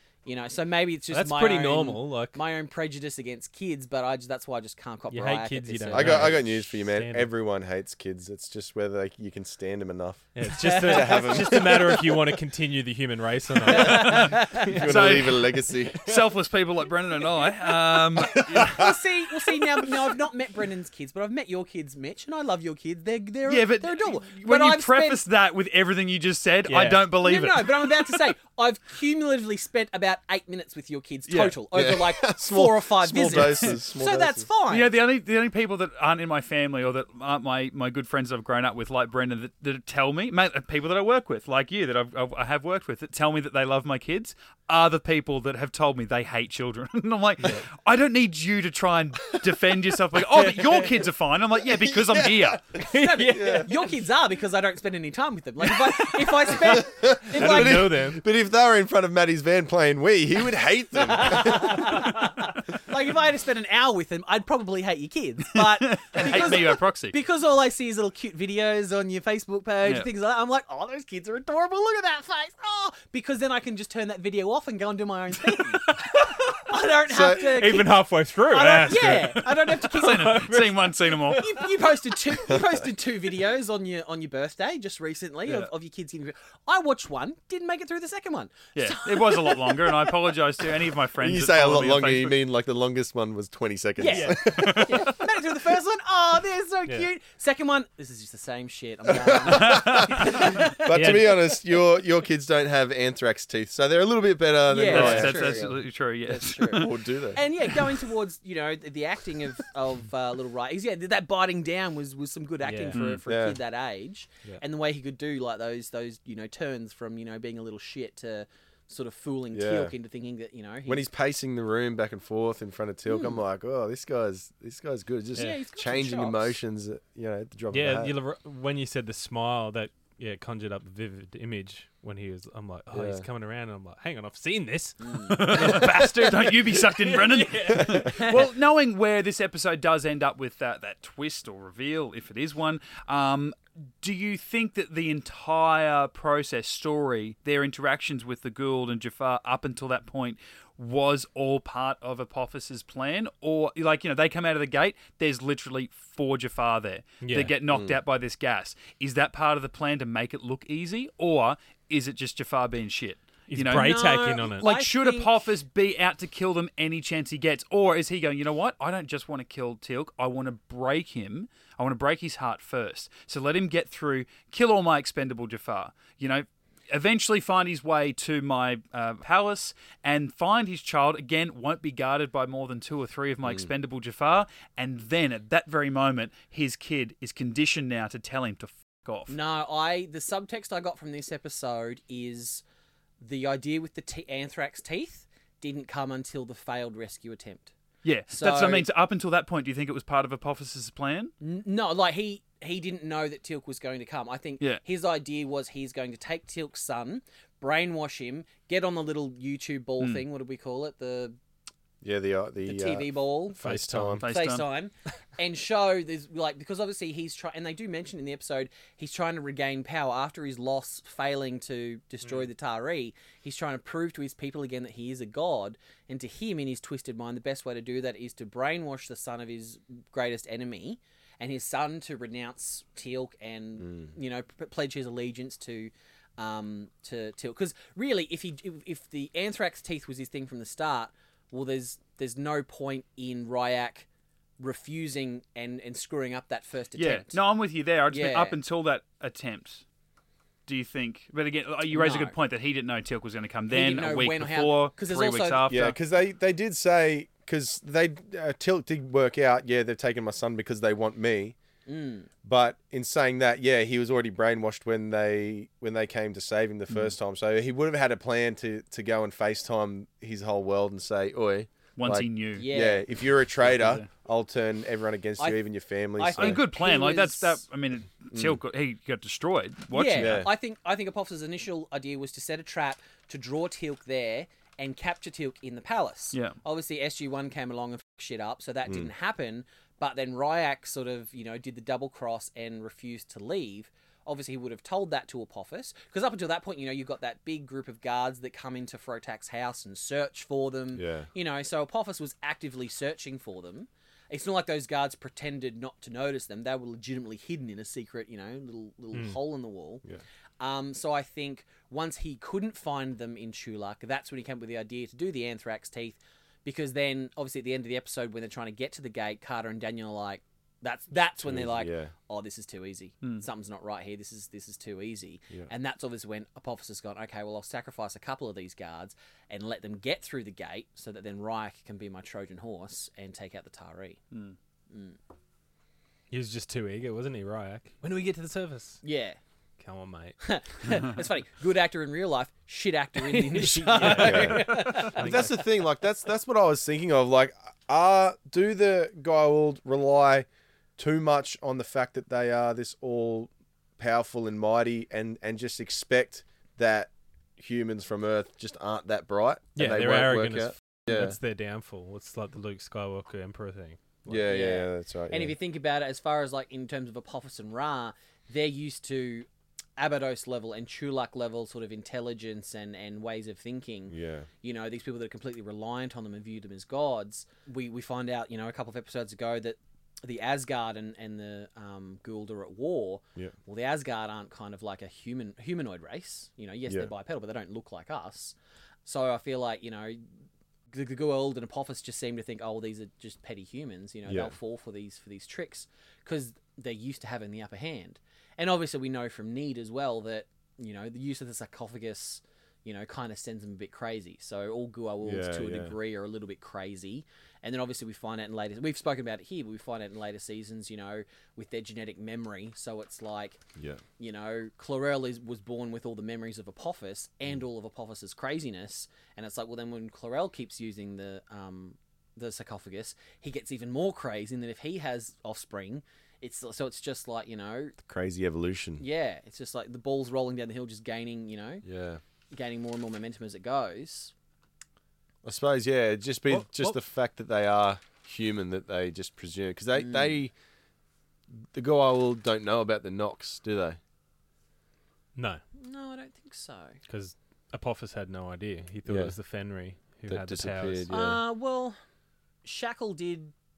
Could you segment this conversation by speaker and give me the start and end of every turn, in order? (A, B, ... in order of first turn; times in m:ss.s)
0:00.2-0:06.4 A
0:01.1-0:02.4 B
0:05.1-0:07.3 B
0:05.9-0:12.3 C
0:10.4-0:14.8 B
0:10.6-0:11.9 A
0:13.7-0:14.8 A
0:13.8-0:18.8 D
0:14.5-0:16.2 C
0:18.2-0:18.9 C
0:18.4-0:25.2 A
0:23.5-0:28.2 D
0:26.7-0:27.0 B
0:27.2-0:34.9 A
0:31.3-0:31.6 D
0:31.7-0:34.4 C
0:34.7-0:52.6 D
0:51.8-0:52.6 C
0:52.7-0:57.9 A
0:52.8-0:53.7 B
0:53.2-0:53.7 C
0:56.5-1:02.0 C
0:57.4-0:58.2 B
1:01.0-1:20.5 A
1:05.6-1:07.1 D
1:15.9-1:16.6 B
1:17.1-1:17.5 C
1:17.3-1:21.6 B
1:19.7-1:21.4 D
1:21.3-1:30.1 A
1:28.7-1:32.4 D
1:31.2-1:35.2 C
1:34.0-1:41.4 A
1:34.1-1:34.4 B
1:34.4-1:35.0 D
1:39.1-1:45.7 C
1:39.5-1:40.2 D
1:40.9-1:41.4 B
1:44.7-2:01.0 A
1:44.9-1:47.0 D
1:46.6-1:47.4 C
1:52.6-1:53.0 B
1:52.9-1:53.2 D
1:53.2-1:53.6 C
1:59.5-1:59.9 C
2:00.9-2:08.1 C
2:03.1-2:03.4 A
2:05.4-2:06.6 A
2:07.7-2:18.4 B
2:12.9-2:13.2 C
2:15.0-2:15.4 A
2:15.3-3:09.3 D
2:15.6-2:16.0 C
2:18.1-2:18.4 A
2:37.2-2:37.5 B
2:37.7-2:38.0 C
2:43.5-2:44.6 B
2:43.7-2:45.4 A
3:09.3-3:12.6 A
3:13.2-3:17.7 A
3:18.0-3:21.3 D
3:18.3-3:18.9 A
3:21.4-3:31.4 A
3:32.0-3:34.2 C
3:32.6-3:33.6 A
3:33.6-3:34.2 B
3:34.2-3:34.6 D
3:34.2-4:04.1 A
3:53.8-3:54.1 C
4:04.6-4:07.4 A
4:07.0-4:09.8 D
4:08.1-4:08.6 A
4:10.7-4:15.9 D
4:11.9-4:12.4 A
4:13.7-4:15.7 A
4:15.7-4:21.6 C
4:21.9-4:22.3 A
4:22.4-4:36.6 C
4:32.0-4:32.7 D
4:32.5-4:33.1 A
4:33.7-4:34.0 D
4:36.2-4:37.6 A
4:36.4-4:40.4 D
4:38.3-4:38.6 C
4:39.9-5:10.0 A
4:40.2-4:40.5 C
5:00.9-5:01.3 C
5:10.6-5:34.2 A
5:21.4-5:22.1 C
5:34.9-5:35.2 A
5:36.3-5:39.0 B
5:39.0-5:39.4 A
5:39.8-5:40.4 B
5:40.4-5:45.6 A
5:43.2-5:45.5 B
5:44.0-6:01.4 C
5:59.8-6:04.4 B
6:04.2-6:05.5 C
6:04.4-6:30.2 A
6:14.1-6:14.5 C
6:30.9-6:53.6 A
6:34.2-6:34.5 C
6:45.2-6:46.0 C
6:53.8-6:54.0 C
6:54.2-7:08.0 A
7:08.0-7:09.0 C
7:09.0-7:11.8 A
7:11.8-7:12.2 C
7:12.5-7:14.3 A
7:15.4-7:20.5 C
7:19.9-7:20.4 A
7:21.7-7:24.0 C
7:25.4-7:25.6 B
7:25.8-7:27.0 A
7:27.1-7:31.0 B
7:29.0-7:29.4 C
7:30.3-7:31.4 C
7:31.1-7:32.0 A
7:32.6-7:33.5 A